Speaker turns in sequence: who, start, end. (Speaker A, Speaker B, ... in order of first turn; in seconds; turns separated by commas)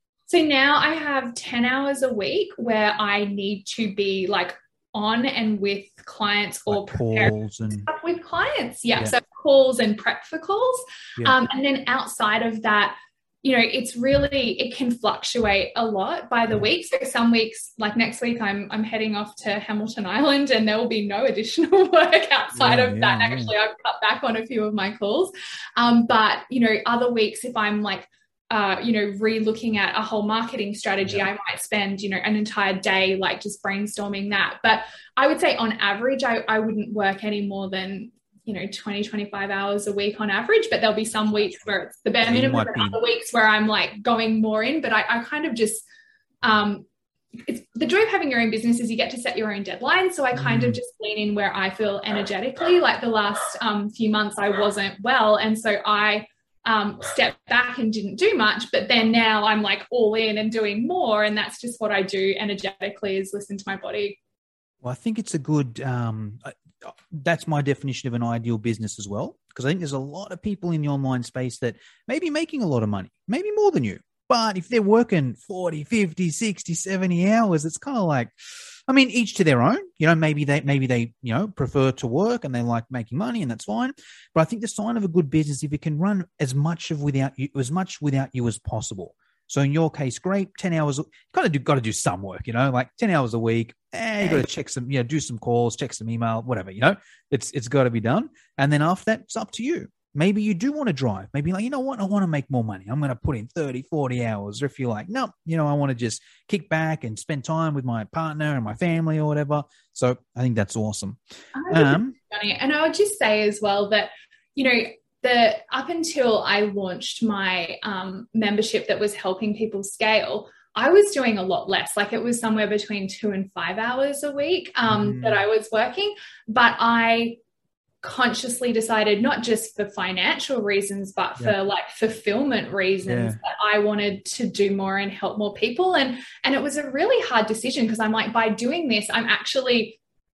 Speaker A: 0.3-45.8, Speaker B: 6.7-7.8, Speaker B: 22.5-23.5, Speaker B: 42.2-43.0, Speaker A: 46.4-46.8, Speaker A: 47.4-64.2, Speaker B: 50.3-50.8, Speaker B: 64.8-78.3, Speaker B: 78.9-112.1, Speaker A: 111.5-127.4, Speaker B: 124.9-125.4, Speaker A: 128.0-140.0, Speaker B: 133.1-133.4